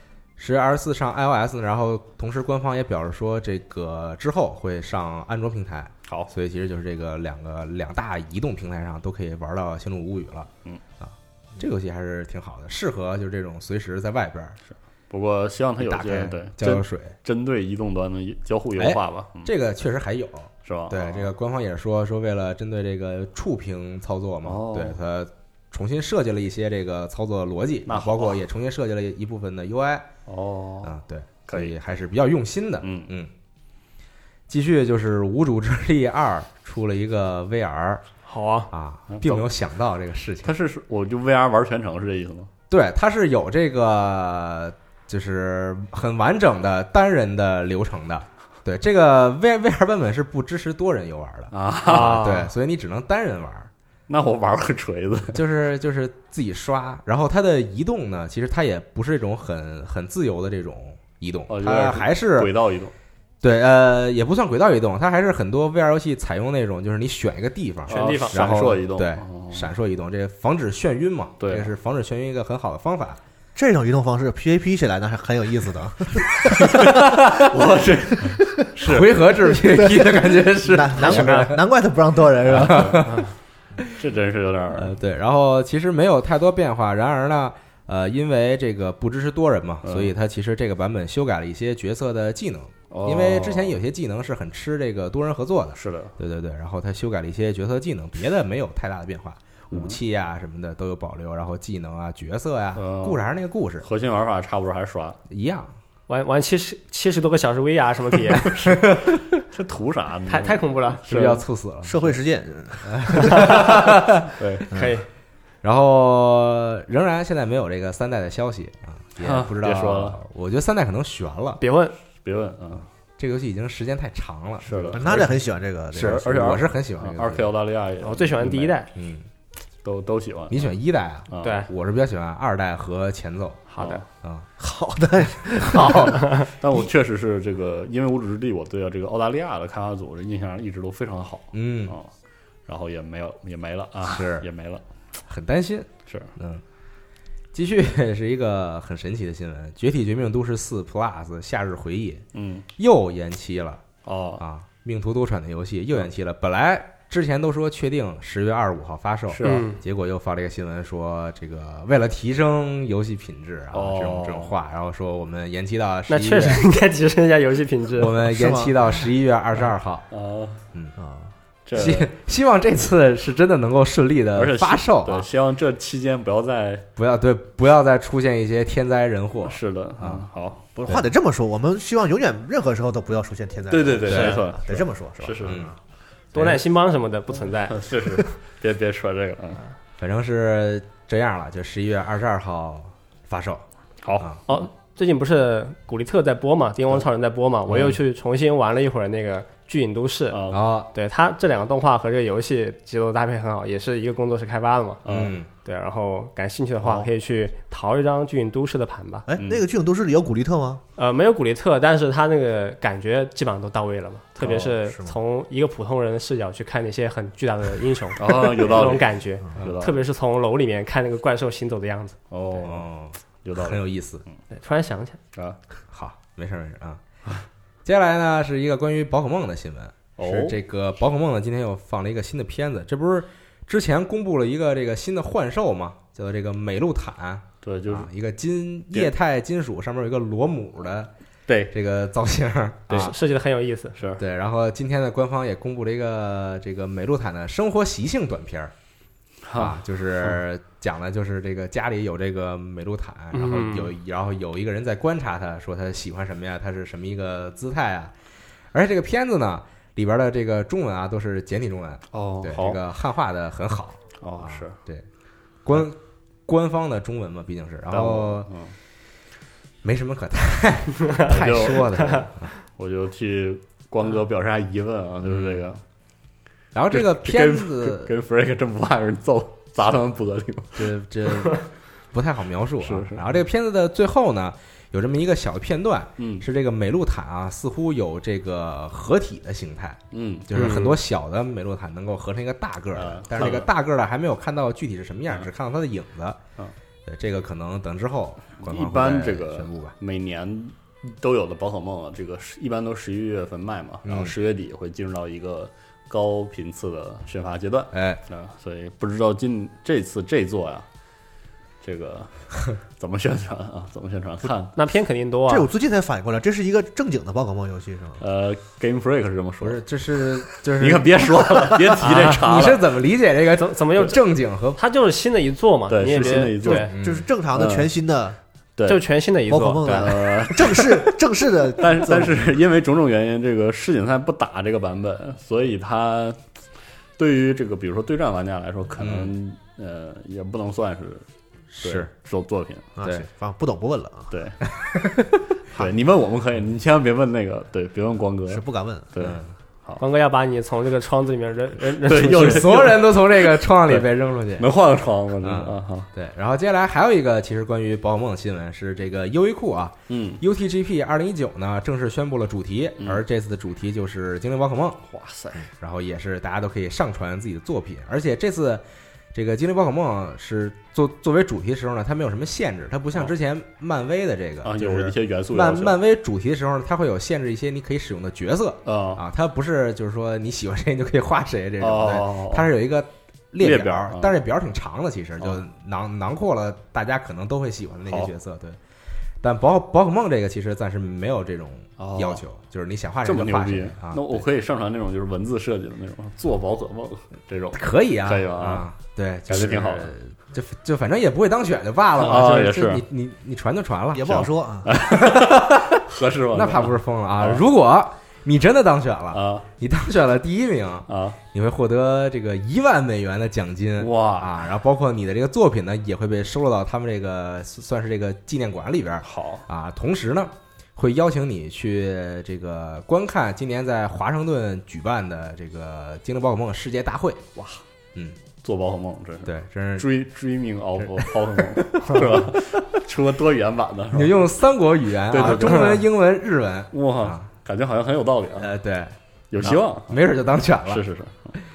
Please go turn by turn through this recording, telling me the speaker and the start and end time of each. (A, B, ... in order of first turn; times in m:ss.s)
0:00.4-0:14.6 A
0:15.1-0:19.5 B
0:15.8-0:17.2 A
0:18.8-0:30.1 A
0:20.6-0:21.3 B
0:24.4-0:25.0 B
0:27.9-0:28.4 B
0:30.3-0:31.0 B
0:30.8-0:33.3 A
0:31.5-0:31.8 B
0:32.8-0:33.1 B
0:34.5-0:38.0 A
0:38.3-0:38.7 C
0:38.7-0:40.6 A
0:39.1-0:39.5 B
0:40.4-0:42.5 B
0:42.7-0:53.7 A
0:51.5-0:52.3 B
0:51.9-0:52.5 C
0:54.1-0:55.4 B
0:55.3-1:02.5 A
1:01.5-1:02.9 B
1:03.4-1:13.2 A
1:07.9-1:08.4 C
1:07.9-1:09.7 B
1:11.4-1:11.7 B
1:13.6-1:17.2 D
1:16.6-1:19.1 B
1:16.7-1:17.5 A
1:18.2-1:23.1 D
1:18.8-1:21.6 A
1:21.1-1:21.5 C
1:22.4-1:23.0 B
1:22.5-1:23.2 A
1:23.9-1:25.0 B
1:24.7-1:43.9 A
1:29.8-1:30.2 B
1:32.9-1:33.8 B
1:35.8-1:36.2 B
1:39.7-1:40.0 B
1:42.8-1:43.2 B
1:43.8-1:45.2 B
1:45.3-1:45.7 A
1:46.1-1:48.8 C
1:49.5-1:51.4 B
1:50.3-1:51.4 C
1:51.1-1:52.1 A
1:51.8-1:53.6 D
1:52.8-1:54.3 A
1:54.4-1:54.7 B
1:54.7-1:55.1 C
1:55.6-2:01.6 A
1:59.2-2:00.2 B
2:01.6-2:01.9 C
2:02.2-2:02.9 B
2:03.2-2:05.3 A
2:04.6-2:05.3 B
2:04.9-2:06.3 D
2:05.9-2:07.5 A
2:05.9-2:08.7 B
2:08.0-2:08.9 C
2:09.0-2:09.3 A
2:09.8-2:10.8 B
2:10.5-2:13.6 A
2:11.3-2:11.6 B
2:11.4-2:11.7 C
2:13.7-2:14.0 C
2:13.8-2:14.0 B
2:14.6-2:16.5 D
2:15.7-2:16.1 A
2:16.5-2:22.1 B
2:21.5-2:22.0 A
2:22.7-2:24.8 B
2:24.1-2:24.5 A
2:25.3-2:26.6 A
2:26.1-2:26.3 B
2:27.5-2:32.2 A
2:32.3-2:32.7 B
2:32.8-2:33.8 A
2:34.0-2:34.4 B
2:34.4-2:46.6 A
2:39.3-2:39.7 B
2:39.4-2:39.8 C
2:43.7-2:44.5 B
2:46.1-2:48.2 C
2:48.0-2:50.1 A
2:48.3-2:48.7 D
2:50.1-2:50.6 B
2:51.0-2:51.3 D
2:51.7-2:52.1 B
2:51.7-2:55.3 A
2:54.4-2:56.9 B
2:57.0-3:00.3 A
2:59.4-3:00.6 B
3:00.8-3:05.7 D
3:03.7-3:05.7 B
3:04.1-3:04.4 A
3:05.4-3:05.7 A
3:06.3-3:08.2 C
3:06.4-3:06.6 A
3:07.7-3:09.6 B
3:10.0-3:13.6 A
3:14.0-3:14.6 B
3:14.5-3:25.0 C
3:20.3-3:20.6 B
3:20.5-3:20.9 A
3:25.0-3:25.4 B
3:25.1-3:25.5 A
3:25.6-3:29.3 C
3:29.3-3:30.8 D
3:29.4-3:29.6 B
3:31.0-3:42.2 C
3:34.4-3:34.7 B
3:34.8-3:35.2 D
3:38.2-3:40.0 B
3:42.3-3:42.9 B
3:42.6-3:44.2 A
3:43.4-3:43.8 B
3:44.5-3:45.2 C
3:45.9-3:47.0 A
3:47.8-4:01.1 A
3:50.2-3:50.6 B
3:57.6-3:58.1 B
4:01.5-4:01.8 B
4:01.7-4:03.2 A
4:02.9-4:03.1 B
4:02.9-4:04.0 C
4:04.0-4:04.2 B
4:04.2-4:08.7 A
4:09.4-4:10.4 B
4:09.6-4:18.1 A
4:13.3-4:13.9 C
4:18.7-4:25.0 A
4:22.1-4:22.8 B
4:24.2-4:24.8 B
4:25.6-4:28.5 A
4:27.9-4:28.8 B
4:29.8-4:32.5 A
4:31.3-4:35.8 B
4:35.3-4:35.6 A
4:36.7-4:38.1 A
4:36.9-4:40.9 B
4:40.8-4:56.4 A
4:42.8-4:43.3 B
4:46.2-4:46.4 B
4:50.1-4:50.8 B
4:50.6-4:51.0 C
4:53.0-4:53.7 B
4:57.1-4:59.9 A
4:58.6-5:10.9 B
5:04.0-5:04.4 A
5:07.9-5:08.2 A
5:11.8-5:14.7 B
5:14.8-5:15.7 C
5:15.5-5:18.2 D
5:18.2-5:19.8 B
5:19.6-5:21.4 A
5:20.4-5:22.9 B
5:22.0-5:22.4 C
5:22.1-5:24.8 A
5:23.6-5:24.2 C
5:24.8-5:26.9 C
5:25.9-5:27.0 B
5:26.7-5:27.3 A
5:27.0-5:28.4 D
5:27.5-5:27.9 B
5:28.8-5:29.0 B
5:28.9-5:30.1 C
5:29.5-5:32.4 D
5:29.8-5:31.2 B
5:31.8-5:36.4 B
5:37.2-5:41.2 B
5:39.0-5:39.3 A
5:41.7-5:42.1 A
5:41.8-5:42.9 B
5:43.0-5:44.3 D
5:44.3-5:44.6 B
5:44.7-5:45.4 A
5:45.7-5:50.0 B
5:48.5-5:49.1 D
5:49.2-5:49.5 A
5:50.0-5:52.9 C
5:52.0-5:56.1 B
5:52.2-5:54.7 A
5:55.4-6:05.0 A
6:00.1-6:00.4 B
6:05.1-6:05.7 B
6:05.8-6:28.8 A
6:14.6-6:16.0 B
6:18.9-6:19.2 B
6:21.8-6:22.7 B
6:23.6-6:24.4 B
6:29.4-6:34.4 A
6:32.0-6:32.4 B
6:33.2-6:38.9 B
6:37.8-7:07.4 A
6:39.5-6:40.1 B
6:42.2-6:43.0 B
6:44.1-6:44.9 D
6:44.8-6:47.6 B
6:49.3-6:49.7 B
6:51.1-6:51.4 B
6:54.0-6:54.7 B
6:59.2-6:59.6 B
7:07.6-7:07.8 B
7:08.6-7:14.5 B
7:09.4-7:10.1 A
7:11.2-7:12.4 A
7:14.1-7:17.4 A
7:15.3-7:16.1 B
7:16.9-7:18.7 B
7:18.6-7:21.0 A
7:19.5-7:20.2 B
7:20.9-7:21.5 B